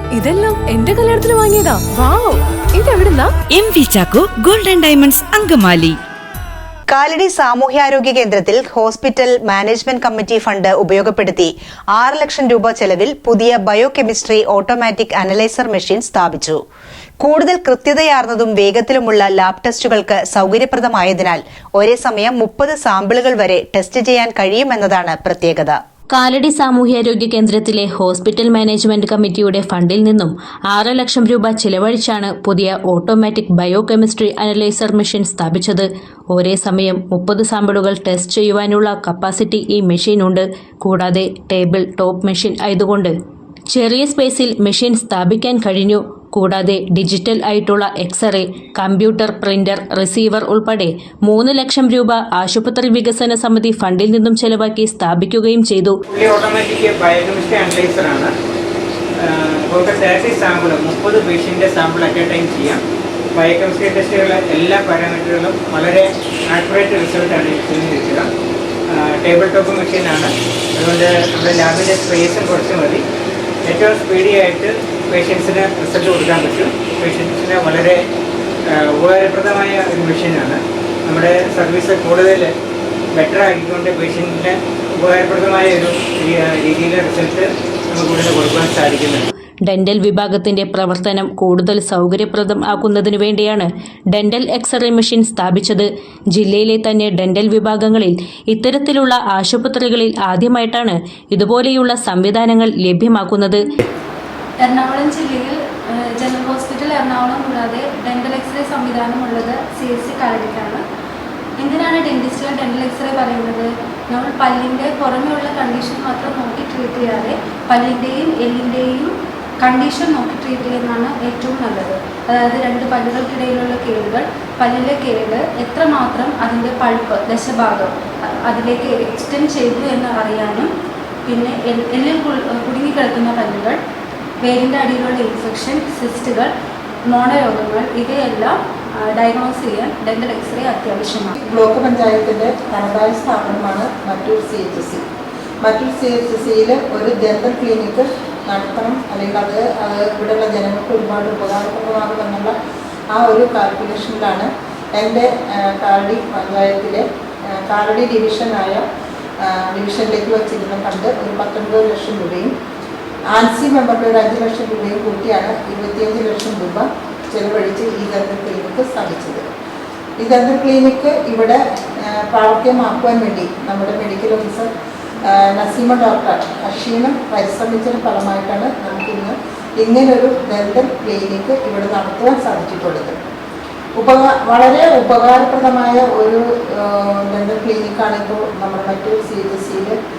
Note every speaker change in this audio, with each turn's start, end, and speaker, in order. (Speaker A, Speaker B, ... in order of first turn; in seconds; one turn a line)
Speaker A: 0.2-3.2
Speaker B: 3.5-6.0
Speaker C: 6.9-16.6
Speaker C: 17.2-25.8
Speaker D: 26.1-43.1
Speaker D: 43.7-56.0
Speaker E: 56.1-58.3
Speaker E: 59.2-62.8
Speaker E: 63.4-68.3
Speaker E: 68.9-73.0
Speaker E: 73.7-78.0
Speaker E: 78.7-82.5
Speaker E: 83.2-89.3
Speaker D: 89.7-103.6
Speaker F: 104.6-110.8
Speaker F: 111.6-119.1
Speaker F: 119.6-130.7
Speaker F: 131.3-133.8
Speaker F: 134.4-136.5
Speaker F: 137.1-138.5
Speaker F: 139.1-141.3
Speaker G: 141.4-145.0
Speaker G: 145.6-152.5
Speaker G: 153.1-157.0
Speaker G: 157.6-158.8
Speaker G: 159.4-162.5
Speaker G: 163.3-169.4
Speaker G: 170.2-174.7
Speaker G: 175.2-183.2
Speaker G: 184.0-189.9